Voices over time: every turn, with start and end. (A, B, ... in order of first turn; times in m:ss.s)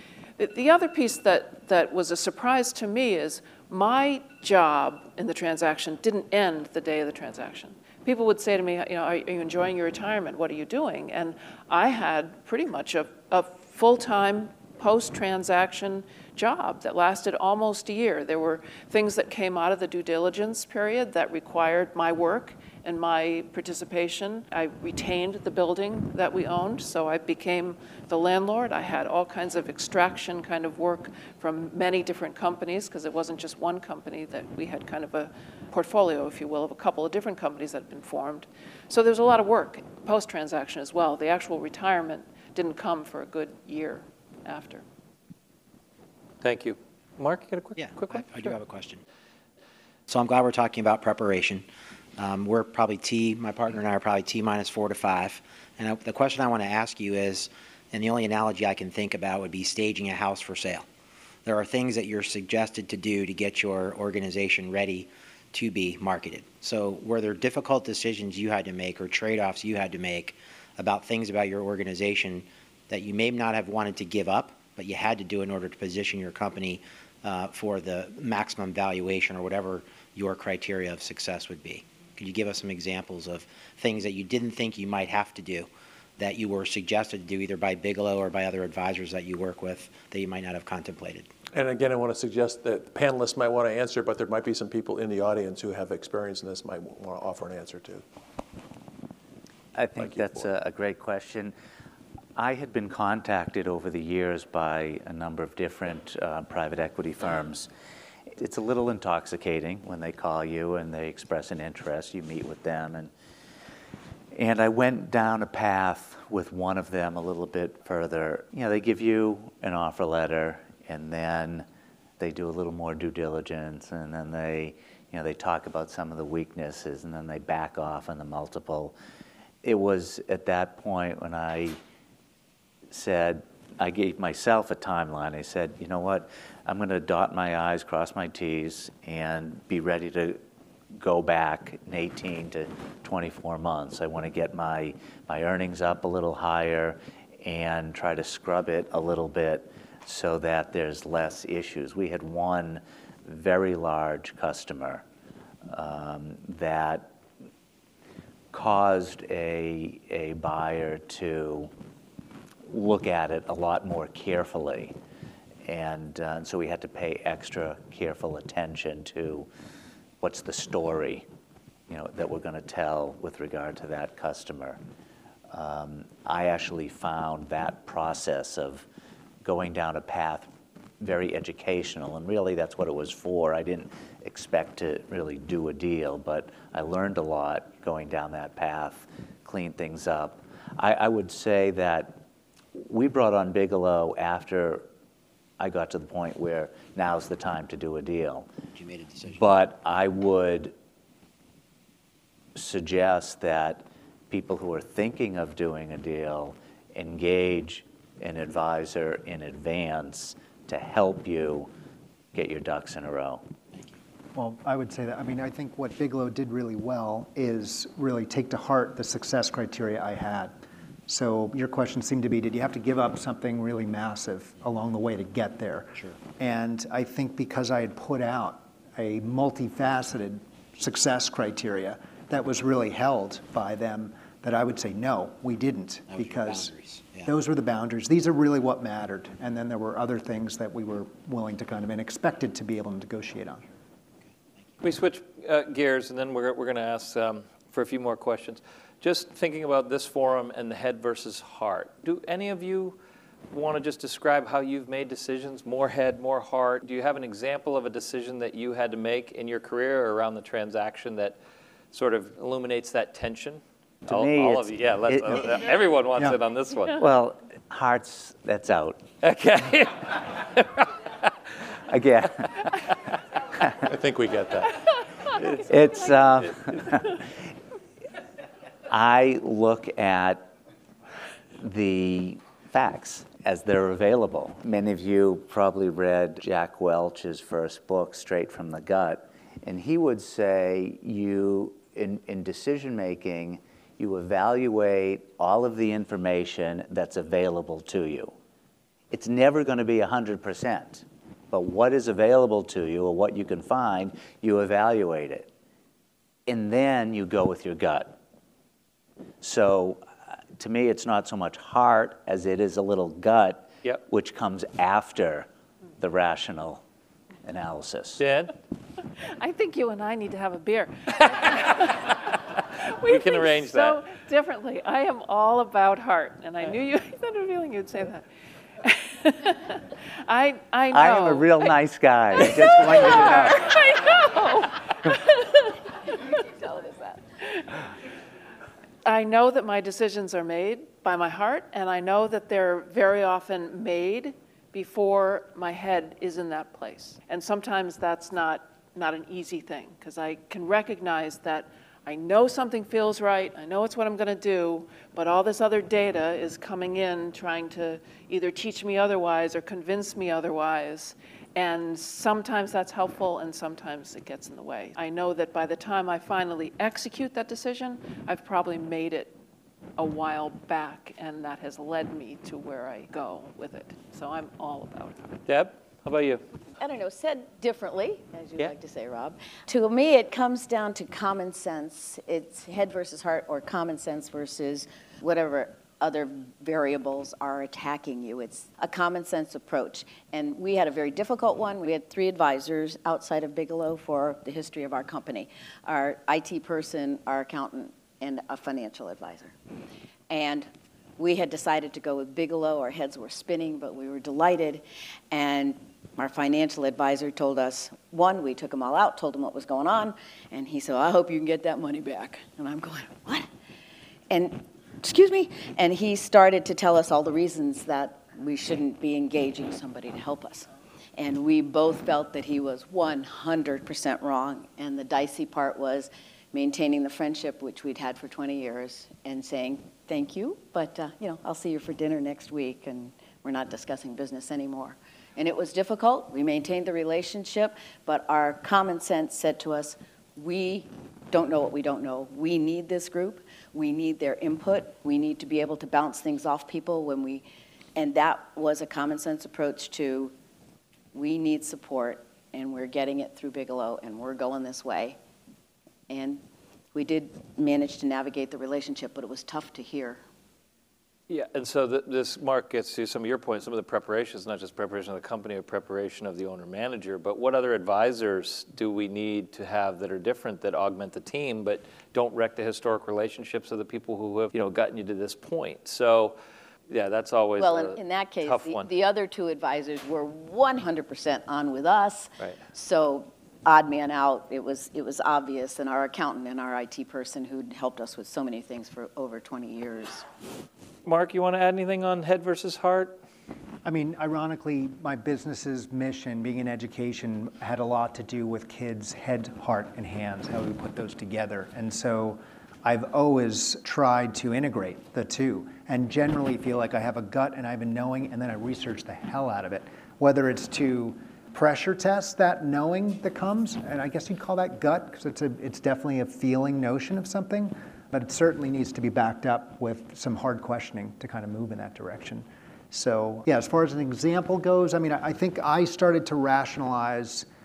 0:00.4-0:44.8 A
0:46.4-0:48.6 B
0:47.8-0:49.0 C
0:50.1-1:00.9 C
1:01.5-1:31.3 C
1:31.5-1:38.0 D
1:39.8-1:41.5 E
1:40.0-1:40.3 D
1:42.4-1:47.7 E
1:48.4-1:53.1 E
1:54.3-2:01.7 E
2:02.2-2:09.0 E
2:09.6-2:11.8 E
2:12.9-2:20.4 E
2:20.9-2:35.0 E
2:35.7-2:37.1 E
2:38.5-2:41.7 E
2:42.7-2:45.0 E
2:45.6-2:49.5 E
2:50.2-2:51.3 E
2:51.9-2:54.8 E
2:55.5-2:58.9 E
2:59.4-3:12.2 E
3:12.7-3:14.9 E
3:15.6-3:18.5 E
3:18.8-3:19.5 C
3:19.3-3:20.8 E
3:22.6-3:31.7 E
3:32.3-3:33.4 E
3:34.4-3:40.5 F
3:41.1-4:03.6 F
3:56.1-3:57.3 C
4:04.8-4:13.0 B
4:13.5-4:21.4 B
4:21.9-4:27.0 B
4:24.1-4:25.5 E
4:27.0-4:29.0 E
4:29.2-4:30.8 B
4:31.9-4:32.7 E
4:33.8-4:34.7 D
4:35.6-4:37.2 E
4:38.9-4:40.5 E
4:41.6-4:58.4 E
4:59.1-5:05.5 E
5:06.5-5:08.2 E
5:09.4-5:10.1 E
5:10.6-5:15.5 E
5:16.0-5:16.8 E
5:17.4-5:18.2 E
5:18.2-5:18.5 B
5:19.4-5:22.3 A
5:22.9-5:28.2 A
5:23.0-5:24.0 B
5:28.8-5:31.8 A
5:30.9-5:33.8 E
5:32.4-5:37.7 A
5:39.0-6:09.3 A
6:10.0-6:15.4 A
6:15.5-6:16.4 B
6:16.8-6:39.6 G
6:40.3-6:53.5 G
6:54.3-7:27.4 G
7:28.0-7:30.3 G
7:31.1-7:35.2 G
7:36.1-7:36.4 G
7:36.9-7:40.2 G
7:41.3-7:56.4 B
7:56.9-7:58.9 B
7:57.6-8:10.2 G
8:11.0-8:13.2 B
8:13.8-8:47.5 F